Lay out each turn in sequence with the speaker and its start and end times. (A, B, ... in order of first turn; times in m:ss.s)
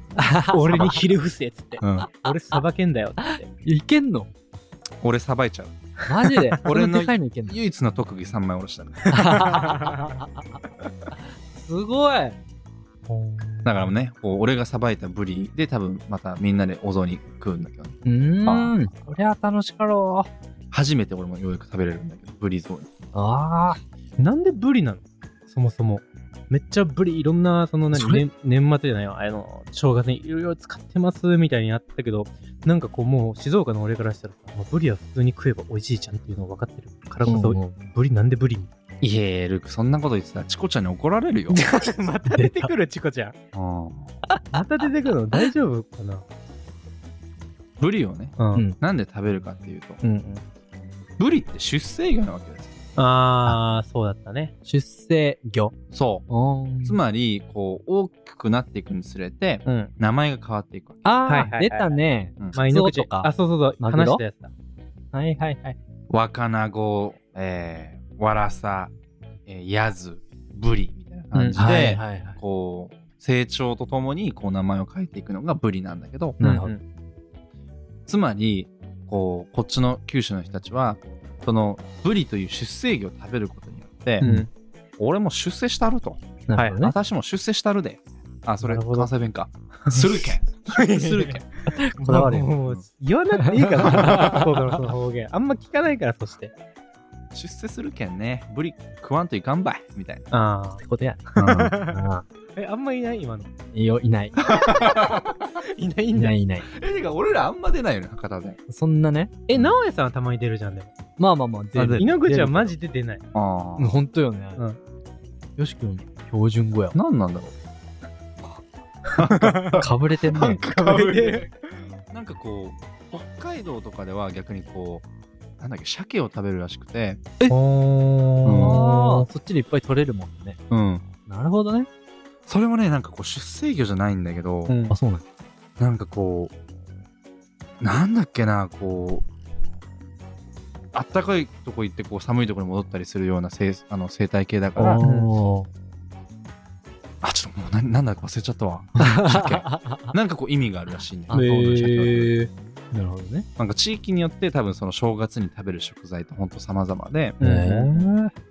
0:00.2-0:01.0 A
0:00.4-0:03.5 B
0:01.8-0:02.1 C
0:03.2-0:04.3 A
0:05.0-0:05.8 C
0:06.1-0:07.6 A
0:06.3-0:06.5 B
0:06.6-0:09.1 C
0:09.1-0:10.0 B
0:09.1-0:10.4 A
0:11.5-0:12.4 A
0:13.1-0:13.9 B
0:13.6-0:18.8 C
0:18.0-0:20.3 A
0:20.7-0:22.9 C
0:23.1-0:23.8 A
0:24.2-0:38.7 B
0:27.9-0:28.2 A
0:37.2-0:37.7 A
0:39.0-0:41.6 C
0:41.5-0:43.4 B
0:42.3-0:42.7 A
0:43.5-0:44.1 C
0:44.5-0:46.2 B
0:47.8-0:50.0 C
0:48.4-0:48.6 B
0:50.0-0:50.4 B
0:51.2-0:52.8 C
0:53.0-0:54.5 B
0:54.6-0:55.7 A
0:55.9-0:56.3 C
0:56.3-0:57.0 A
0:56.8-1:01.1 C
0:59.6-0:59.9 B
1:01.0-1:04.2 A
1:01.3-1:02.0 B
1:02.5-1:04.5 B
1:05.1-1:05.8 A
1:06.1-1:08.9 C
1:09.5-1:16.4 C
1:11.3-1:11.7 B
1:11.5-1:12.4 A
1:16.4-1:16.7 A
1:16.4-1:16.8 B
1:18.1-1:24.3 C
1:24.2-1:24.5 A
1:24.2-1:24.5 B
1:25.0-1:31.4 C
1:26.5-1:26.9 A
1:26.6-1:26.8 B
1:28.6-1:29.1 B
1:29.9-1:31.4 B
1:31.7-1:32.5 A
1:32.0-1:36.5 B
1:33.8-1:34.3 C
1:33.8-1:34.3 A
1:37.3-1:40.3 C
1:40.3-1:40.8 B
1:40.8-1:42.3 A
1:41.4-1:42.0 B
1:41.4-1:41.8 C
1:42.5-1:43.5 B
1:43.7-1:44.4 A
1:44.4-1:45.2 C
1:44.5-1:46.4 B
1:46.1-1:46.7 A
1:46.7-1:48.6 C
1:48.7-1:49.3 A
1:49.5-1:50.9 B
1:51.2-1:52.7 A
1:51.8-1:52.2 C
1:52.0-1:53.2 B
1:53.3-1:54.0 C
1:53.8-1:54.6 A
1:55.6-1:57.0 A
1:56.9-1:57.5 C
1:59.2-2:01.5 C
1:59.2-2:01.5 B
1:59.8-2:00.6 A
2:02.1-2:05.1 C
2:05.6-2:07.5 C
2:07.5-2:09.3 B
2:08.4-2:08.8 C
2:08.6-2:10.6 A
2:10.7-2:11.0 C
2:11.3-2:11.9 A
2:12.5-2:14.8 C
2:14.7-2:15.0 B
2:14.9-2:15.2 A
2:15.8-2:16.5 C
2:17.8-2:19.3 C
2:20.9-2:25.0 C
2:24.8-2:25.7 A
2:25.0-2:25.3 B
2:27.2-2:32.3 C
2:29.0-2:30.1 A
2:31.3-2:32.1 A
2:31.3-2:32.4 B
2:32.9-2:33.5 A
2:33.6-2:37.4 C
2:37.4-2:38.3 B
2:37.4-2:38.1 A